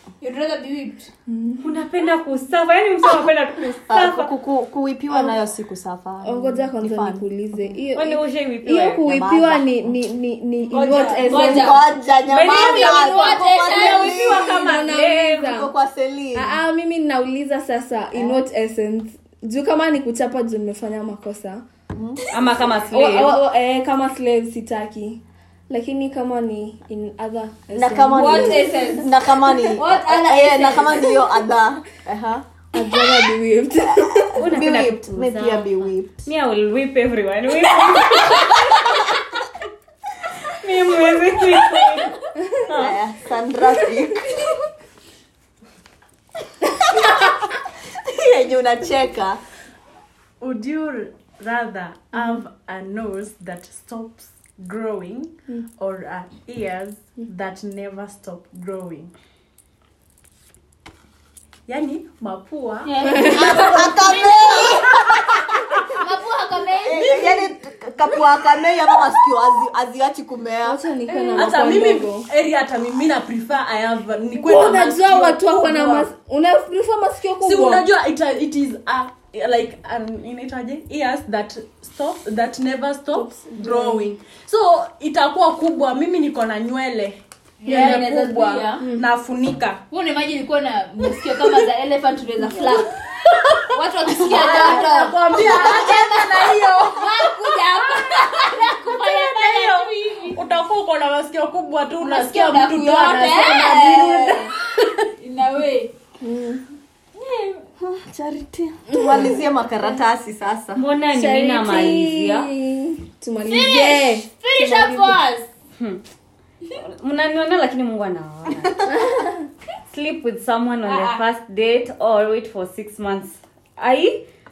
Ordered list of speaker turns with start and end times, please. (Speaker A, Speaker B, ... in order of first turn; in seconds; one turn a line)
Speaker A: 0.2-1.1
Speaker B: 1.3-1.6
Speaker C: 1.6-4.3
Speaker D: 3.7-7.2
Speaker B: 6.2-11.8
Speaker C: 7.9-9.1
Speaker D: 9.0-9.9
Speaker C: 10.7-11.2
Speaker D: 11.1-14.8
Speaker A: 11.2-11.8
Speaker C: 12.2-15.6
Speaker A: 12.3-14.2
Speaker B: 14.2-15.7
Speaker D: 15.4-16.5
Speaker B: 16.3-21.6
Speaker D: 21.9-22.3
Speaker C: 22.3-23.4
Speaker B: 22.9-29.2
Speaker D: 27.7-32.5
Speaker A: 28.1-29.1
Speaker A: 29.6-31.2
Speaker B: 32.7-34.6
Speaker D: 34.3-36.3
Speaker C: 34.4-39.0
Speaker C: 40.5-43.0
Speaker D: 42.8-44.3
Speaker D: 48.0-49.4
Speaker E: 50.4-59.1
Speaker E: 61.7-64.2
Speaker A: 62.8-64.9
Speaker B: 63.1-63.6
Speaker D: 63.3-65.4
Speaker A: 65.9-67.5
Speaker D: 66.8-70.8
Speaker B: 70.6-72.3
Speaker E: 71.1-76.1
Speaker B: 74.4-77.9
Speaker E: 77.4-89.8
Speaker B: 83.1-84.2
Speaker A: 87.6-88.9
Speaker B: 87.7-88.1
Speaker B: 88.8-89.0
Speaker A: 89.9-100.5
Speaker E: 93.3-97.4
Speaker C: 99.5-99.8
Speaker E: 100.3-104.5
Speaker A: 102.0-105.9
Speaker B: 103.4-104.5
Speaker D: 103.4-104.4
Speaker B: 106.2-106.6
Speaker A: 107.1-107.7
Speaker D: 107.8-110.8
Speaker B: 108.9-109.3
Speaker C: 110.8-112.5
Speaker B: 111.1-115.2
Speaker A: 113.5-115.5
Speaker C: 116.7-118.9
Speaker B: 119.0-119.3
Speaker C: 119.9-124.2
Speaker A: 120.8-121.2